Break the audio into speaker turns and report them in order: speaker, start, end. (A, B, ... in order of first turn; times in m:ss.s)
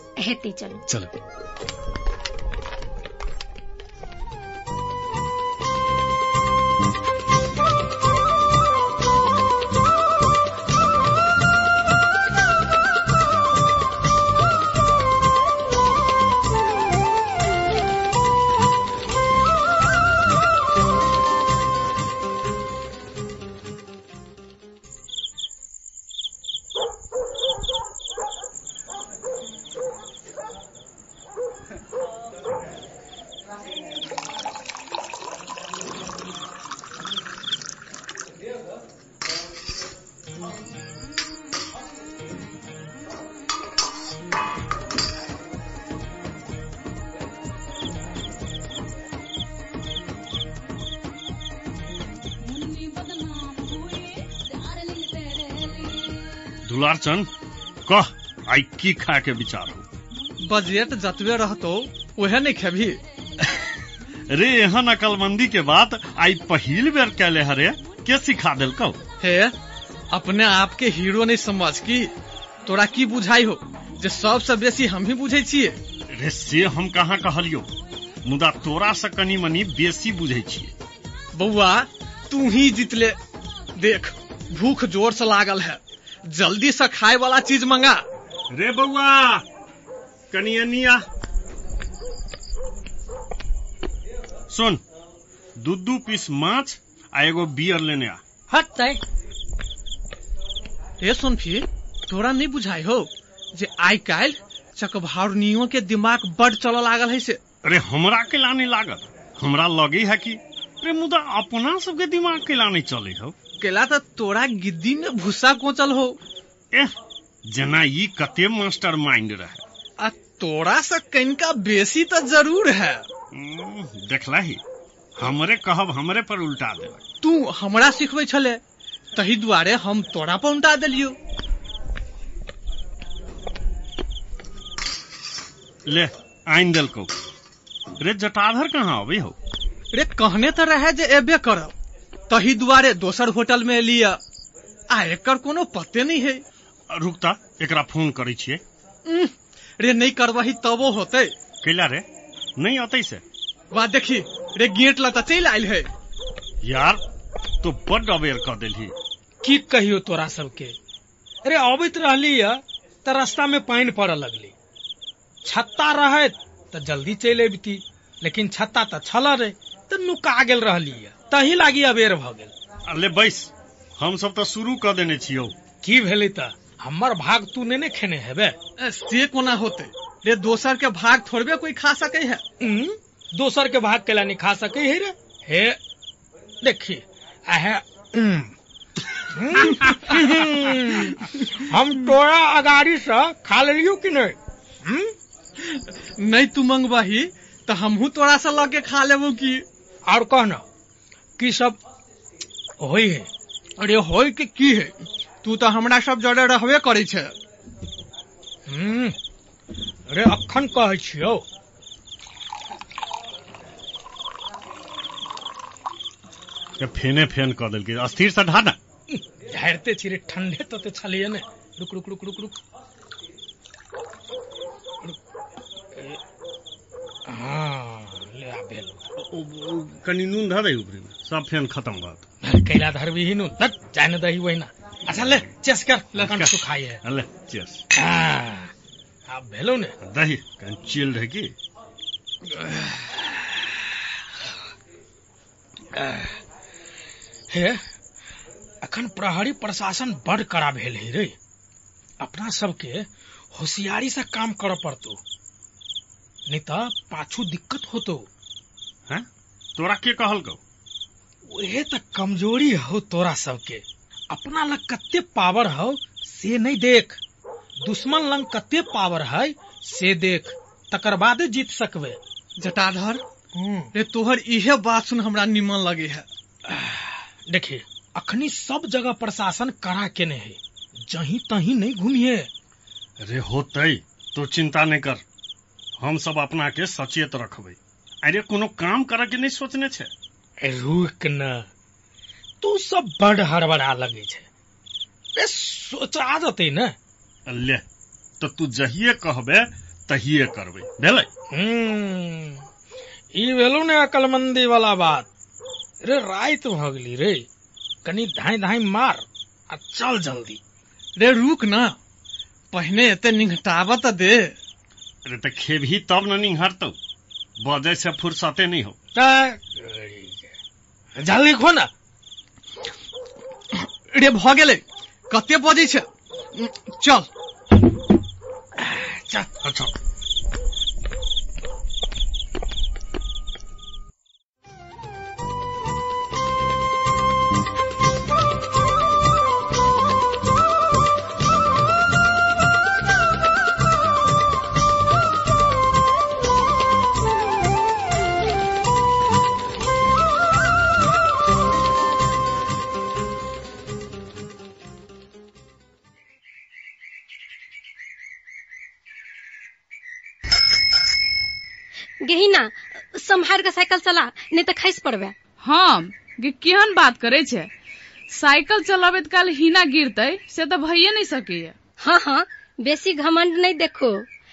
0:00.2-0:00.8 A
0:56.6-0:57.3 B
0:57.9-0:59.8 B
1:00.4-1:03.0 C
1:04.3-1:09.0 B
1:09.2-1:09.6 C
1:10.1-1:12.1 C
1:12.7-1:15.8 C
1:16.2-1:17.7 B
1:18.2-1:20.7 B
1:21.3-1:23.2 C
1:23.8-1:28.0 C
1:28.5-1:29.4 B
1:30.3-1:31.0 B
1:34.5-1:34.8 B
1:35.6-1:38.2 B
1:38.5-1:39.0 D
1:41.0-1:47.4 C
1:47.6-1:53.4 B
1:53.6-1:56.2 C
1:57.5-1:59.6 B
2:00.0-2:03.0 C
2:03.3-2:04.6 B
2:05.2-2:07.0 B
2:07.2-2:08.6 C
2:09.2-2:11.2 C
2:15.9-2:17.1 B
2:18.0-2:19.4 B
2:19.9-2:21.7 C
2:22.3-2:24.2 C
2:24.9-2:26.4 C
2:26.9-2:28.6 B
2:29.1-2:31.3 C
2:31.6-2:32.1 B
2:32.6-2:33.2 B
2:33.7-2:35.9 C
2:36.6-2:37.0 B
2:37.6-2:39.0 B
2:39.4-2:40.8 D
2:41.4-2:44.6 D
2:45.4-2:52.5 D
2:52.9-2:55.6 B
2:55.8-2:58.6 D
2:58.8-3:02.4 C
3:02.6-3:05.8 D
3:06.6-3:08.5 D
3:09.4-3:15.1 D
3:16.2-3:19.6 C
3:20.1-3:20.6 D
3:21.4-3:21.8 D
3:22.8-3:23.3 D
3:23.8-3:24.5 D
3:23.8-3:24.9 C
3:25.4-3:27.3 C
3:28.7-3:29.2 D
3:30.1-3:31.4 D
3:36.8-3:38.8 B
3:39.1-3:42.6 D
3:46.0-3:46.2 D
3:47.3-3:49.0 D
3:49.2-3:52.2 B
3:52.4-3:57.0 D
3:56.2-3:57.8 B
3:58.0-3:58.7 D
3:59.3-4:00.0 D
4:00.0-4:01.5 B
4:02.5-4:03.6 D
4:06.0-4:06.4 D
4:07.5-4:07.8 D
4:08.8-4:11.4 D
4:12.2-4:15.2 D
4:16.5-4:18.3 D
4:19.1-4:20.6 B
4:21.5-4:27.2 D
4:27.8-4:32.2 D
4:32.6-4:33.2 C
4:33.6-4:33.9 D
4:33.9-4:36.3 C
4:36.7-4:42.5 D
4:43.2-4:45.2 B
4:46.0-4:50.1 B
4:50.6-4:51.7 D
4:52.6-4:54.5 D
4:55.4-4:57.0 D
4:57.5-4:57.8 B
4:58.4-5:01.3 B
5:01.5-5:02.7 D
5:03.3-5:05.3 D
5:06.0-5:07.5 D
5:08.0-5:10.6 D
5:11.2-5:12.0 C
5:12.7-5:14.6 C
5:15.2-5:17.0 B
5:17.6-5:19.0 B
5:19.2-5:20.5 D
5:21.2-5:21.9 D
5:24.1-5:27.3 C
5:28.8-5:29.5 D
5:29.6-5:29.9 B
6:02.2-6:05.3 A
6:05.6-6:07.7 E
6:08.3-6:11.8 E
6:12.0-6:14.3 A